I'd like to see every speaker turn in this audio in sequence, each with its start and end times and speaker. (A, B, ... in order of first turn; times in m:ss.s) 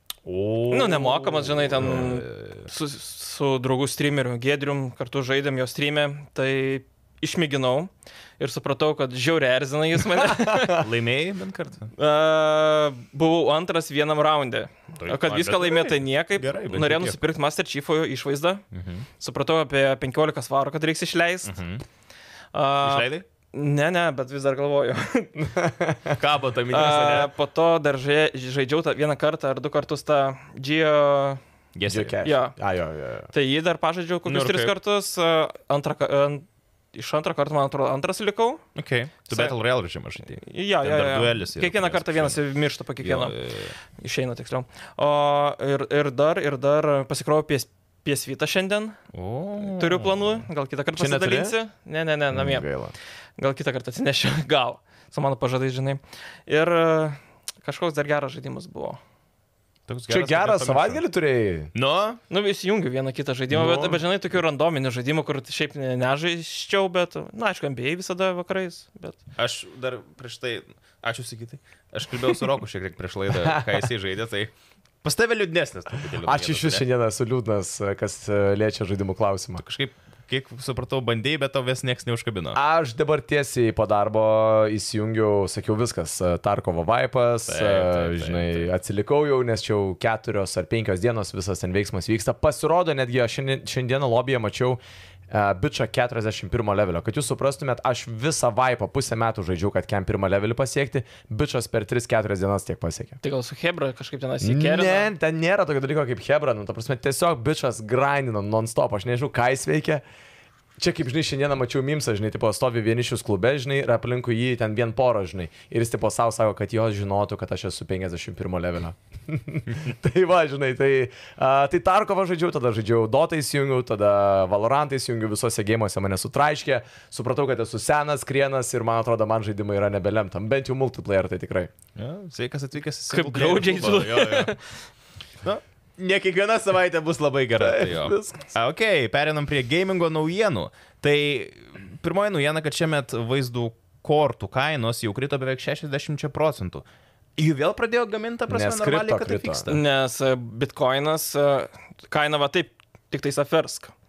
0:00.3-0:02.7 A
0:00.7-0:10.9 B
0:01.8-0:02.1 C
0:10.2-0:10.8 C
0:10.6-0:11.9 A
0:12.0-0:18.6 B
0:15.0-0:17.2 A
0:18.7-0:19.1 A
0:19.2-0:21.6 B
0:21.4-0:21.8 A
0:22.5-0:25.4 B
0:22.8-0:23.2 A
0:25.4-0:26.2 C
0:26.2-0:27.3 A
0:26.7-0:31.4 B
0:31.8-0:32.2 A
0:31.9-0:33.3 C
0:32.2-0:32.6 B
0:33.3-0:38.6 B
0:34.3-0:34.7 A
0:38.8-0:42.4 A
0:39.3-0:39.6 B
0:40.3-0:43.4 B
0:43.0-0:43.8 A
0:44.0-0:49.0 B
0:49.1-0:50.4 A
0:49.6-0:52.7 B
0:51.0-0:51.6 C
0:52.3-0:52.9 C
0:53.4-0:59.0 B
0:59.9-1:01.0 A
1:00.1-1:01.7 C
1:01.7-1:02.2 A
1:02.3-1:09.2 B
1:03.5-1:04.0 C
1:09.4-1:14.5 A
1:13.4-1:13.8 C
1:15.0-1:16.8 A
1:16.2-1:19.6 C
1:19.6-1:22.6 A
1:22.5-1:34.8 C
1:27.5-1:28.7 A
1:35.3-1:43.2 C
1:43.2-1:45.1 B
1:44.4-1:50.0 C
1:50.8-2:11.7 C
2:12.0-2:14.5 A
2:13.1-2:14.6 B
2:15.4-2:26.9 A
2:17.6-2:18.5 C
2:27.4-2:29.8 A
2:28.5-2:29.6 C
2:29.7-2:33.9 B